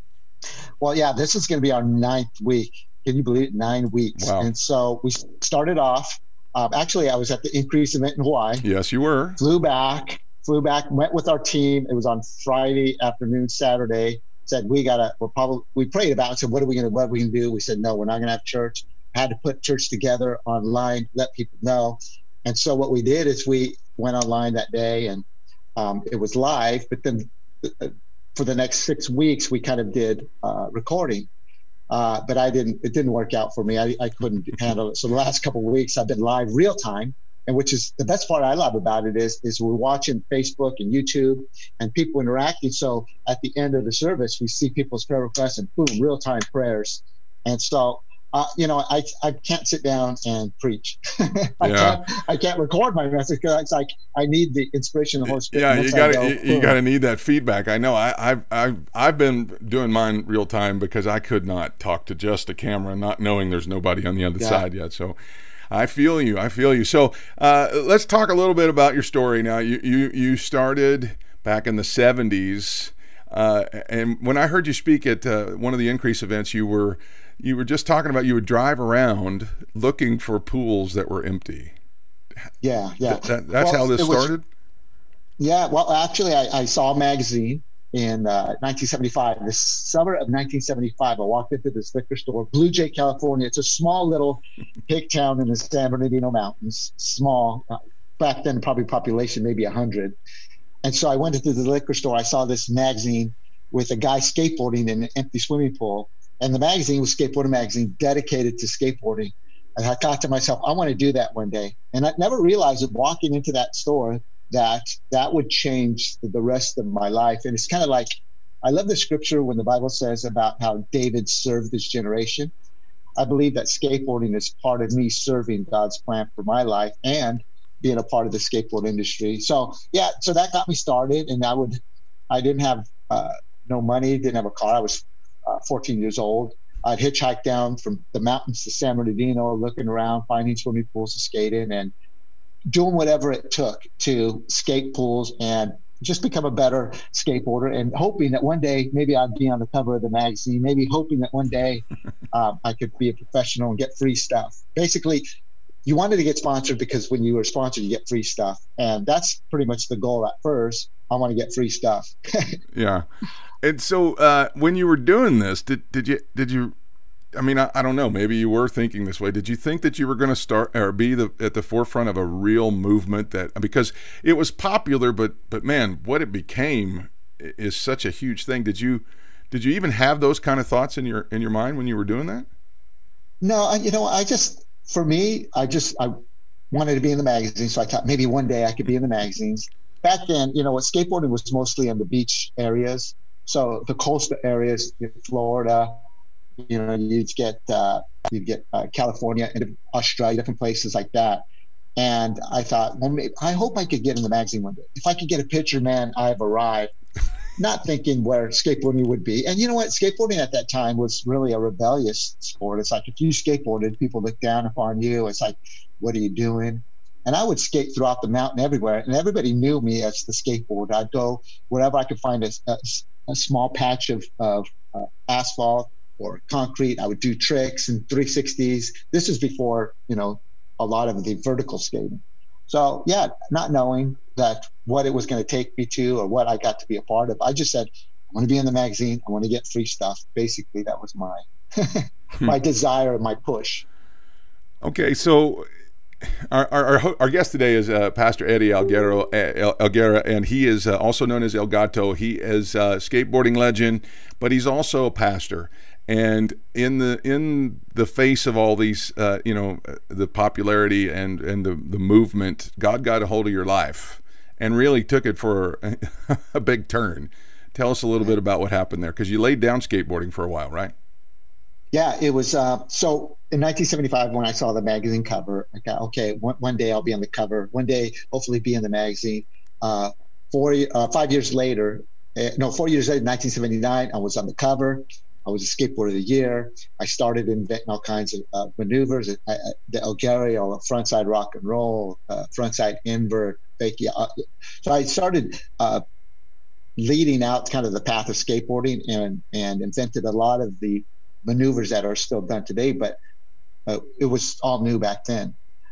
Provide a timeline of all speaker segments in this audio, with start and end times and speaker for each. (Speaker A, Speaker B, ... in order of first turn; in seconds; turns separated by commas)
Speaker A: 0.8-8.6, Speaker B: 4.2-4.5, Speaker B: 8.6-9.4, Speaker A: 9.4-25.2, Speaker A: 25.8-31.3, Speaker A: 31.9-56.8, Speaker B: 51.6-52.0, Speaker B: 55.3-65.2, Speaker A: 64.4-64.6, Speaker B: 65.7-81.7, Speaker A: 82.6-84.3, Speaker B: 83.1-84.4, Speaker A: 85.4-100.1, Speaker A: 100.8-118.1, Speaker A: 118.6-122.5, Speaker A: 123.2-141.9, Speaker A: 142.7-155.2, Speaker A: 155.8-162.6, Speaker B: 162.7-163.1, Speaker B: 163.6-166.7, Speaker B: 167.3-182.5, Speaker A: 183.4-186.1, Speaker A: 186.7-196.0, Speaker A: 196.7-201.4, Speaker A: 202.0-206.9, Speaker A: 207.6-243.8, Speaker B: 244.8-245.6, Speaker B: 246.5-270.9, Speaker A: 271.9-296.0, Speaker A: 297.0-303.2, Speaker A: 303.9-305.5